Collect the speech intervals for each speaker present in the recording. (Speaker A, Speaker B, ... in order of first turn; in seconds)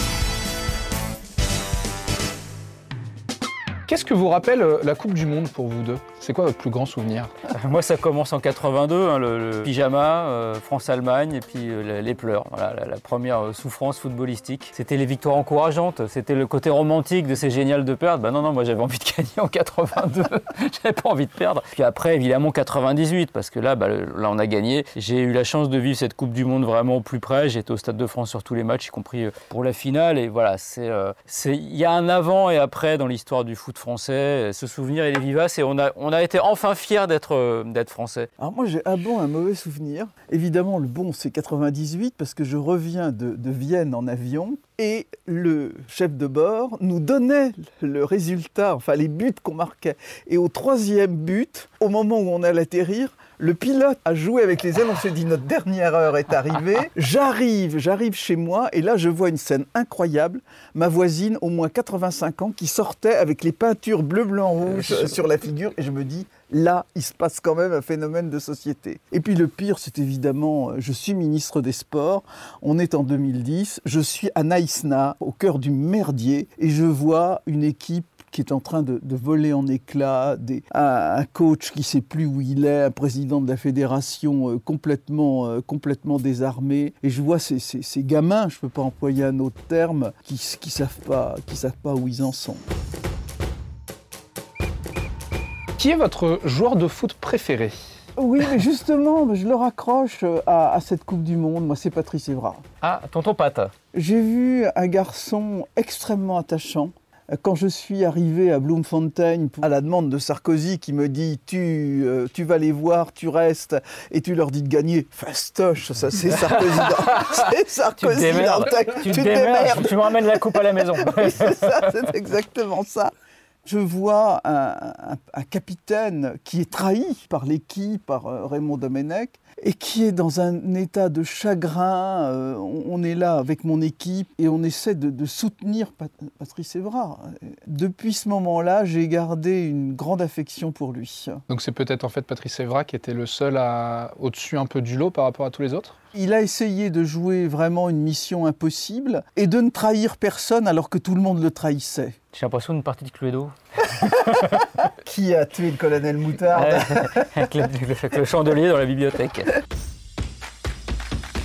Speaker A: 3.9-7.3, 95.8-97.8, 141.5-145.9
Speaker B: 7.5-38.3, 102.8-103.7, 116.5-122.0, 152.3-154.8, 156.5-159.6
Speaker C: 38.4-92.6, 98.2-102.6, 103.9-123.1, 123.6-141.4, 146.1-152.2, 155.0-157.5